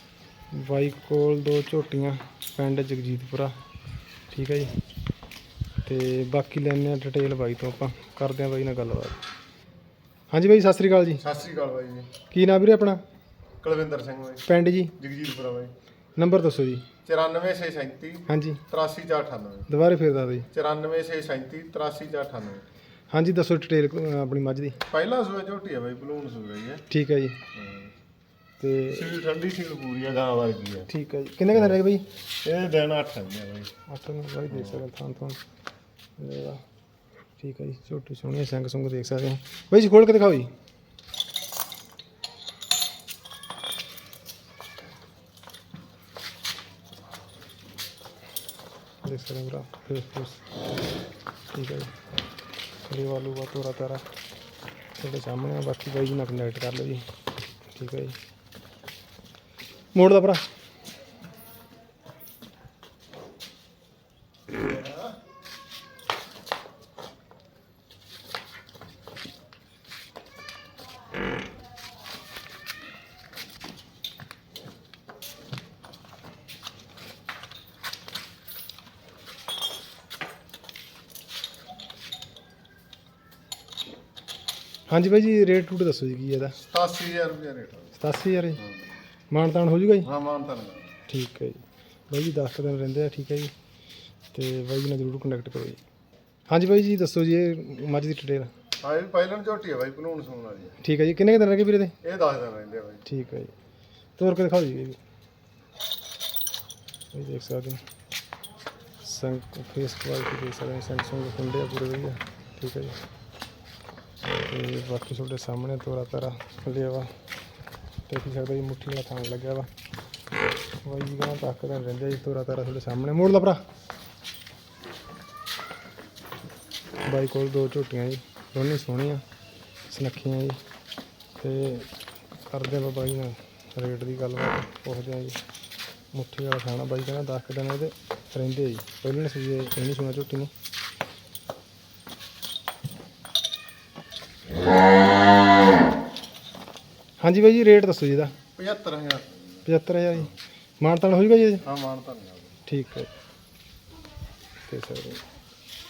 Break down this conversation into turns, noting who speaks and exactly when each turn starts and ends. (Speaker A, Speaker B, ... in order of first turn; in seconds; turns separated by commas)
Speaker A: 0.5-3.6, Speaker A: 4.3-4.7, Speaker A: 5.8-9.2, Speaker A: 10.3-11.2, Speaker B: 11.2-12.1, Speaker A: 12.3-13.0, Speaker B: 13.6-15.7, Speaker A: 14.4-14.9, Speaker A: 16.2-16.9, Speaker B: 17.0-19.7, Speaker A: 18.3-18.6, Speaker A: 19.7-20.5, Speaker B: 20.5-22.6, Speaker A: 23.1-24.8, Speaker B: 24.9-26.9, Speaker A: 26.9-27.4, Speaker B: 27.5-27.9, Speaker A: 28.6-29.1, Speaker B: 28.9-30.9, Speaker A: 30.9-32.1, Speaker B: 32.4-33.7, Speaker A: 33.9-35.4, Speaker B: 34.5-34.8, Speaker A: 36.2-36.6, Speaker A: 37.4-40.5, Speaker A: 49.0-50.5, Speaker A: 51.5-52.0, Speaker A: 52.8-54.0, Speaker A: 55.0-57.1, Speaker A: 57.7-58.2, Speaker A: 59.9-60.4, Speaker A: 84.9-86.6, Speaker B: 86.6-87.9, Speaker A: 88.0-88.6, Speaker A: 89.3-90.1, Speaker B: 90.0-91.0, Speaker A: 91.1-93.5, Speaker A: 94.3-95.8, Speaker A: 96.5-98.5, Speaker B: 98.8-100.8, Speaker A: 100.8-102.0, Speaker B: 102.0-103.0, Speaker A: 103.0-103.5, Speaker A: 104.2-105.0, Speaker A: 107.1-107.8, Speaker A: 109.0-113.0, Speaker A: 114.3-117.2, Speaker A: 118.1-119.7, Speaker A: 120.8-123.6, Speaker A: 127.0-129.2, Speaker A: 129.9-130.6, Speaker A: 131.4-131.9, Speaker A: 132.4-135.4, Speaker A: 136.1-140.5, Speaker A: 147.2-148.3, Speaker B: 148.6-149.7, Speaker A: 149.7-151.7, Speaker B: 151.6-152.5, Speaker A: 152.7-153.1, Speaker A: 154.7-155.2